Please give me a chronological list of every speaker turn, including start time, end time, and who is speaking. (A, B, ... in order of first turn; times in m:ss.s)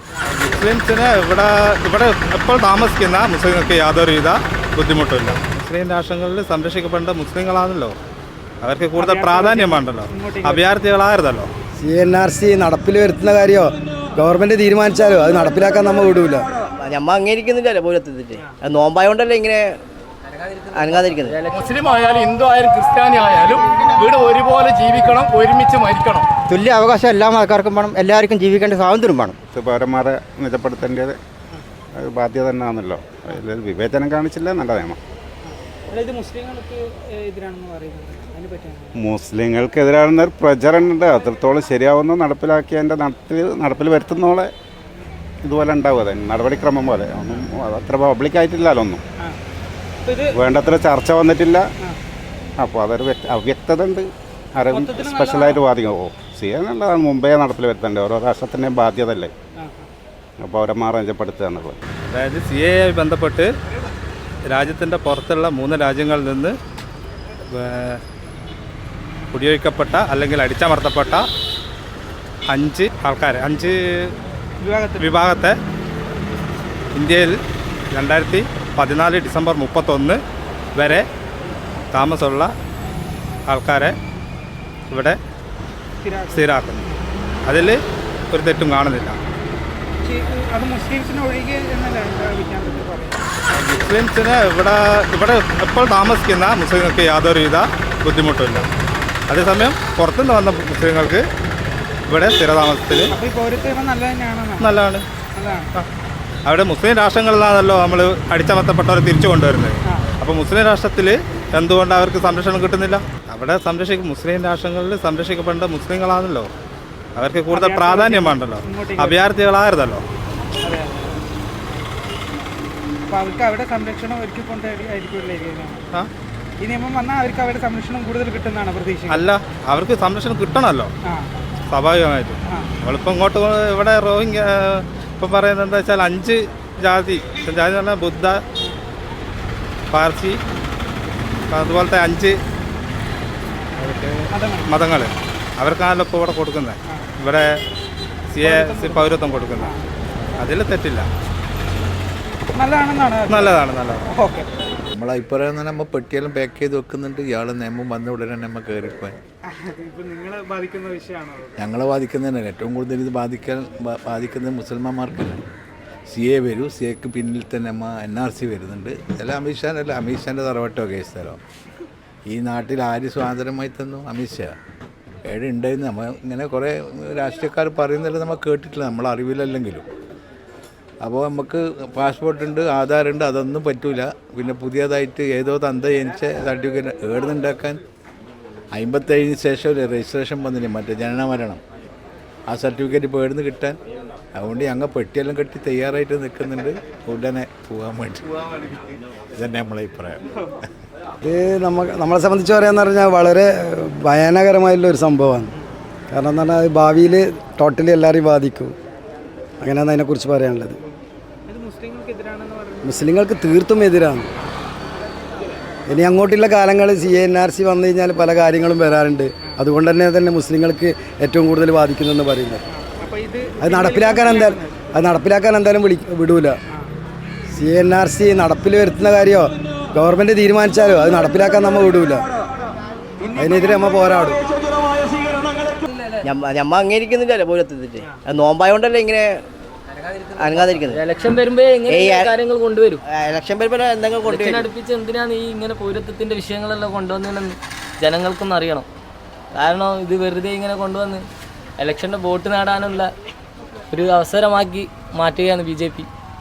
0:00.3-0:07.9 A
0:08.6-0:11.5 A
0:09.0-0:10.6 B
0:11.8-0:16.5 C
0:16.8-0:19.7 D
0:20.7-0:21.4 D
0:20.9-0:21.6 E
0:21.5-0:26.2 F
0:26.5-0:29.4 G
0:29.5-0:31.1 H
0:31.9-0:35.0 H
0:35.5-0:38.9 B
0:39.0-0:44.5 H
0:45.4-0:49.0 H
0:50.0-0:50.3 B
0:50.3-0:51.6 H
0:52.6-0:59.3 H
0:54.7-0:55.6 B
0:59.6-0:59.9 B
1:00.4-1:01.8 H
1:02.1-1:03.5 A
1:04.5-1:06.5 A
1:07.5-1:08.0 A
1:09.3-1:11.2 A
1:12.5-1:14.1 A
1:14.6-1:15.0 B
1:15.0-1:15.6 A
1:16.9-1:17.3 A
1:17.9-1:20.2 A
1:20.7-1:21.0 A
1:21.9-1:22.5 A
1:23.5-1:23.9 A
1:24.9-1:25.2 A
1:26.0-1:26.4 B
1:26.3-1:26.8 A
1:27.4-1:27.8 A
1:28.3-1:29.2 A
1:30.0-1:33.2 B
1:33.5-1:38.7 A
1:39.3-1:41.2 A
1:42.1-1:43.1 A
1:43.1-1:44.7 B
1:44.6-1:45.0 A
1:45.4-1:45.7 B
1:46.4-1:56.5 A
1:57.2-2:00.0 A
1:57.5-1:59.2 B
2:00.6-2:01.2 B
2:03.1-2:05.8 B
2:06.6-2:09.2 B
2:09.1-2:10.9 A
2:11.0-2:11.3 B
2:11.7-2:18.4 A
2:19.9-2:20.4 A
2:21.5-2:22.4 A
2:23.8-2:27.4 A
2:24.3-2:24.7 B
2:28.3-2:29.7 A
2:28.4-2:29.8 B
2:30.4-2:31.1 A
2:32.5-2:33.5 B
2:33.3-2:34.0 A
2:34.1-2:34.5 B
2:34.9-2:39.2 I
2:39.5-2:41.6 B
2:41.6-2:45.4 I
2:46.1-2:51.4 I
2:52.3-2:54.5 I
2:55.2-2:59.9 I
3:01.0-3:07.8 I
3:08.7-3:11.6 I
3:12.5-3:13.8 I
3:14.4-3:20.4 I
3:21.2-3:25.5 C
3:26.1-3:28.7 C
3:29.6-3:30.8 C
3:31.5-3:33.1 B
3:32.8-3:34.3 C
3:35.9-3:42.6 C
3:42.7-3:44.9 B
3:43.6-3:46.6 C
3:47.5-3:52.2 C
3:53.2-3:53.9 B
3:53.4-3:54.4 C
3:56.2-3:59.4 D
4:00.4-4:01.0 D
4:00.6-4:03.0 E
4:01.8-4:02.3 D
4:03.1-4:04.7 D
4:04.2-4:08.8 E
4:09.5-4:11.2 E
4:11.8-4:13.1 E
4:13.9-4:16.1 E